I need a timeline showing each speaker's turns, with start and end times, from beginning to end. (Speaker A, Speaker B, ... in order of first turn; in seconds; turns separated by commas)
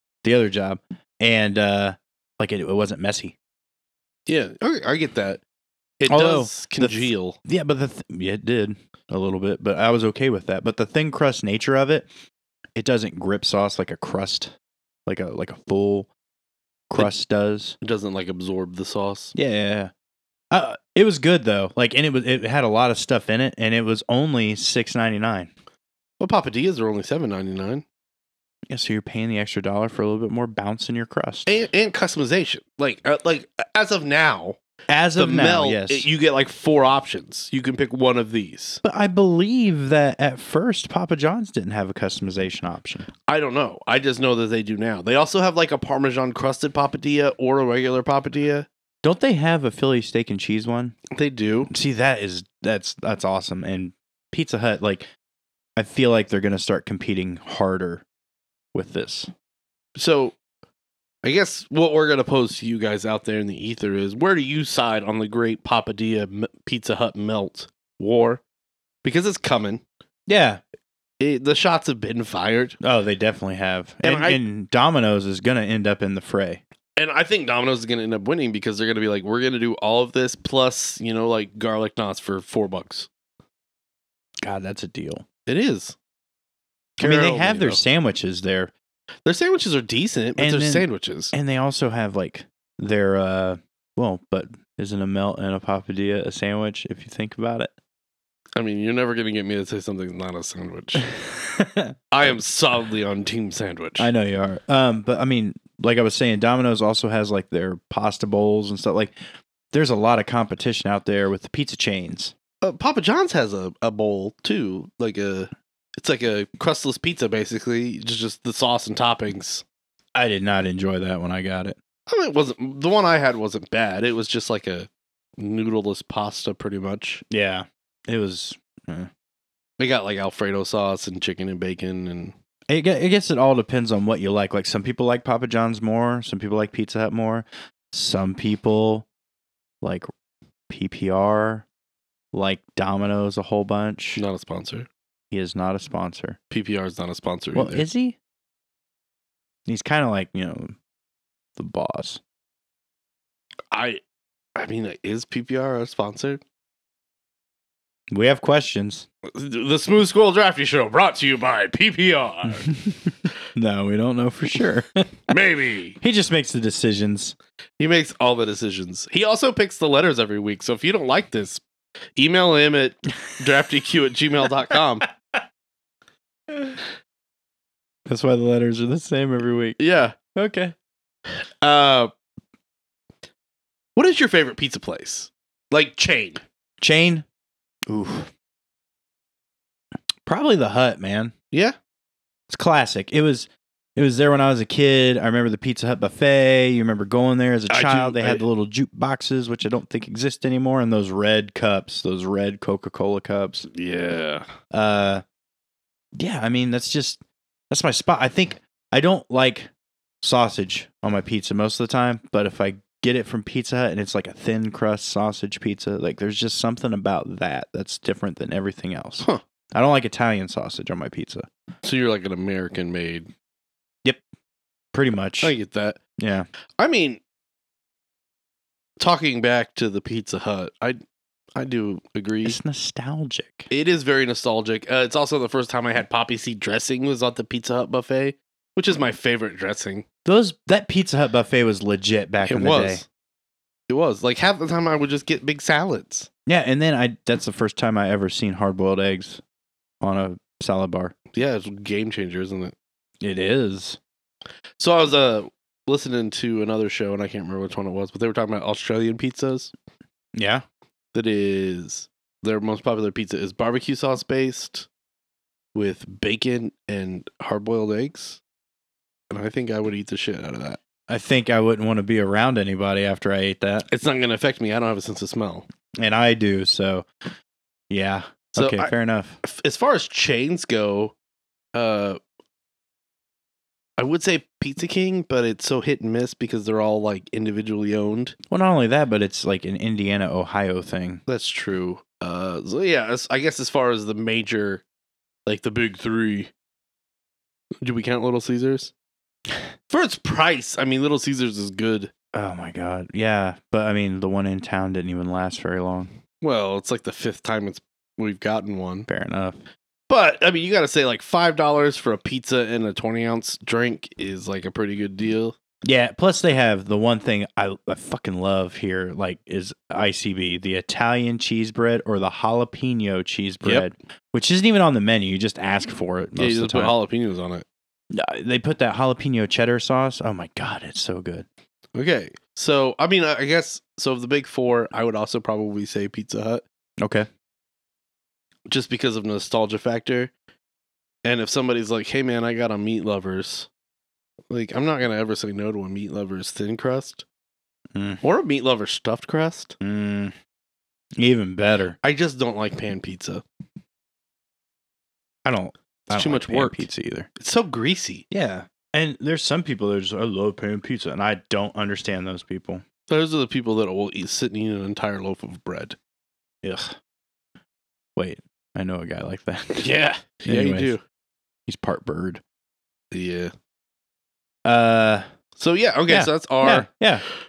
Speaker A: 0.2-3.4, Speaker B: 4.3-5.4, Speaker B: 6.0-7.4, Speaker A: 6.1-12.1, Speaker A: 12.8-14.5, Speaker A: 15.1-16.1, Speaker A: 16.9-17.8, Speaker B: 17.8-19.4, Speaker A: 19.4-19.9, Speaker A: 20.5-25.5, Speaker B: 26.2-27.8, Speaker A: 28.7-31.5, Speaker B: 31.5-34.6, Speaker A: 34.9-36.1, Speaker B: 35.2-38.8, Speaker A: 38.8-43.1, Speaker B: 43.3-48.7, Speaker A: 49.0-51.0, Speaker B: 51.1-51.7, Speaker A: 51.7-55.1, Speaker A: 55.8-58.0, Speaker A: 58.7-59.3, Speaker B: 60.0-60.4, Speaker B: 61.2-68.4, Speaker B: 69.0-69.8, Speaker A: 70.3-70.6, Speaker B: 71.2-72.8, Speaker A: 72.8-76.6, Speaker B: 74.0-74.4, Speaker B: 77.0-83.1, Speaker A: 84.4-85.2, Speaker B: 85.5-86.0, Speaker B: 87.0-87.8, Speaker A: 87.0-88.7, Speaker B: 89.2-91.3, Speaker A: 90.4-97.7, Speaker B: 98.6-101.1, Speaker A: 101.1-102.0, Speaker B: 102.1-104.1, Speaker A: 104.0-109.2, Speaker A: 109.7-112.3, Speaker B: 112.6-119.6, Speaker A: 120.2-121.8, Speaker B: 122.1-127.2, Speaker A: 127.3-129.1, Speaker B: 129.8-132.3, Speaker A: 132.7-139.1, Speaker A: 139.8-140.1, Speaker A: 140.7-141.7, Speaker A: 142.3-144.2, Speaker B: 144.2-144.9, Speaker A: 145.3-146.4, Speaker B: 146.5-147.8, Speaker A: 147.5-148.2, Speaker A: 149.7-150.8, Speaker A: 151.6-152.2, Speaker B: 153.7-154.0, Speaker B: 154.6-156.4, Speaker A: 158.1-159.1, Speaker B: 159.3-162.7, Speaker A: 162.6-165.2, Speaker B: 165.3-166.0, Speaker A: 166.0-167.4, Speaker B: 167.8-171.6, Speaker B: 172.2-175.1, Speaker A: 178.1-180.8, Speaker B: 179.8-180.2, Speaker B: 181.6-182.1, Speaker B: 184.0-186.4, Speaker A: 186.8-187.2, Speaker A: 187.9-188.3, Speaker A: 190.3-191.3, Speaker A: 192.5-203.7, Speaker B: 197.7-198.4, Speaker B: 203.7-204.4, Speaker A: 204.7-205.2, Speaker A: 206.2-209.7, Speaker A: 210.2-221.5, Speaker B: 221.8-223.3, Speaker A: 224.9-225.6, Speaker B: 225.4-226.0, Speaker A: 226.2-226.5, Speaker B: 226.8-227.2, Speaker B: 229.0-231.0, Speaker B: 231.6-232.6, Speaker A: 232.4-233.7, Speaker B: 233.7-240.1, Speaker A: 240.2-243.0, Speaker B: 242.4-243.1, Speaker B: 243.9-246.3, Speaker A: 246.5-249.4, Speaker A: 250.0-251.2, Speaker B: 251.3-252.8, Speaker A: 253.2-254.0, Speaker B: 254.8-259.7, Speaker A: 260.4-260.6, Speaker B: 261.1-264.9, Speaker B: 265.8-268.4, Speaker B: 269.3-270.8, Speaker A: 271.1-273.9, Speaker B: 273.9-275.6, Speaker A: 276.0-277.1, Speaker A: 277.9-279.4, Speaker B: 278.5-281.1, Speaker B: 281.7-282.2, Speaker B: 284.0-288.4, Speaker A: 288.5-291.2, Speaker B: 291.3-294.8, Speaker B: 295.5-296.5, Speaker B: 297.8-298.9, Speaker B: 299.9-302.1, Speaker A: 302.3-306.1, Speaker B: 306.4-309.1, Speaker A: 309.1-309.6, Speaker B: 310.1-315.6, Speaker A: 315.8-326.9, Speaker B: 326.4-327.6, Speaker A: 328.1-331.5, Speaker B: 331.9-336.6, Speaker A: 337.0-337.3, Speaker B: 338.7-340.3, Speaker B: 341.2-343.7, Speaker B: 344.5-347.2, Speaker A: 347.9-348.2, Speaker B: 348.2-349.8, Speaker A: 349.8-350.3, Speaker A: 351.2-352.0, Speaker B: 352.0-353.4, Speaker A: 355.4-357.3, Speaker B: 356.1-358.2, Speaker A: 358.3-362.8, Speaker B: 363.1-366.0, Speaker A: 366.6-367.0, Speaker A: 368.2-369.9, Speaker B: 369.8-371.0, Speaker A: 370.4-370.9, Speaker A: 371.7-372.4, Speaker B: 373.1-373.5, Speaker A: 374.6-375.3, Speaker B: 375.6-376.9, Speaker A: 376.1-377.2